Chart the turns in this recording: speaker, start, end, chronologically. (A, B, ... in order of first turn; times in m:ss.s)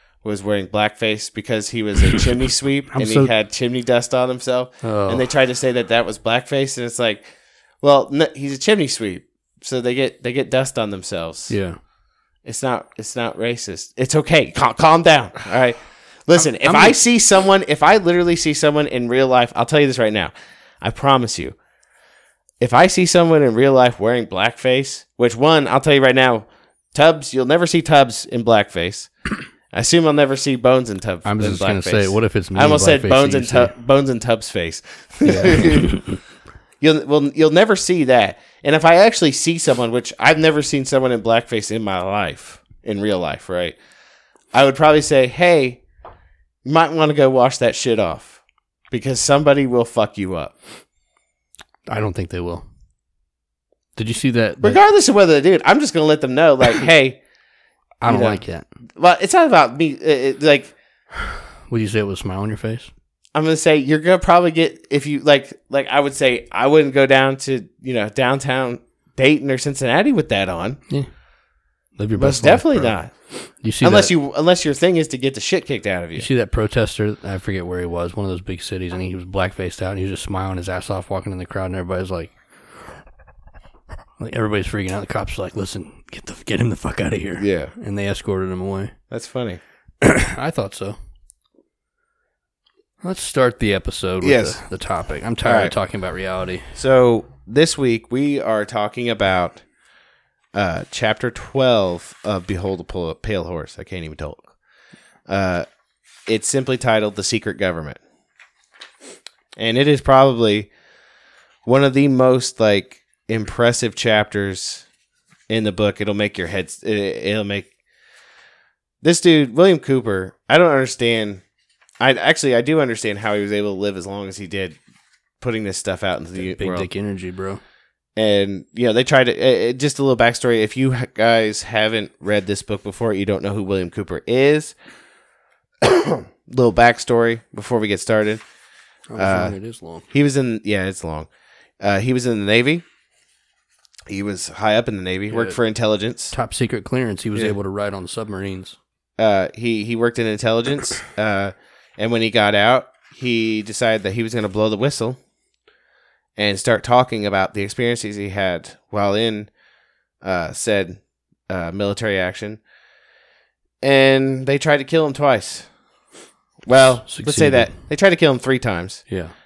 0:00.2-0:07.3 A
0:02.9-0:03.3 B
0:04.8-0:05.3 B
0:07.8-0:11.5 A
0:11.5-0:11.8 B
0:12.4-0:21.6 A
0:16.4-0:17.0 B
0:22.6-0:29.1 A
0:29.7-0:36.1 A
0:31.2-0:33.7 B
0:35.2-0:36.2 B
0:36.8-0:43.8 A
0:44.5-0:45.8 A
0:46.6-0:48.4 A
0:48.9-0:50.5 A
0:51.9-0:52.6 B
0:54.0-0:54.8 B
0:54.6-0:57.2 A
0:58.0-0:58.6 B
0:58.0-0:58.4 A
0:59.0-1:00.7 A
1:01.7-1:02.9 B
1:03.3-1:10.8 A
1:12.0-1:12.9 B
1:12.2-1:13.1 A
1:13.6-1:14.1 B
1:13.8-1:16.3 A
1:16.2-1:22.4 B
1:24.2-1:28.9 B
1:27.4-1:27.7 A
1:29.1-1:29.6 A
1:30.0-1:31.0 B
1:33.0-1:36.7 B
1:34.2-1:34.6 A
1:35.4-1:35.7 A
1:36.7-1:39.6 A
1:40.5-1:44.5 A
1:45.3-1:45.6 A
1:46.2-1:48.0 A
1:49.6-1:50.7 A
1:51.6-1:54.8 A
1:55.5-1:57.7 A
1:59.0-2:01.4 A
2:02.0-2:04.8 A
2:05.4-2:06.9 A
2:06.4-2:07.6 B
2:08.2-2:14.7 A
2:15.8-2:18.4 A
2:19.1-2:20.1 B
2:19.2-2:19.6 A
2:20.1-2:21.3 A
2:21.8-2:22.8 A
2:24.1-2:26.3 A
2:25.3-2:25.6 B
2:26.3-2:28.8 B
2:29.2-2:35.2 A
2:36.4-2:39.5 A
2:40.2-2:42.6 A
2:43.8-2:45.7 A
2:46.6-2:49.0 A
2:47.0-2:47.8 B
2:49.1-2:49.3 B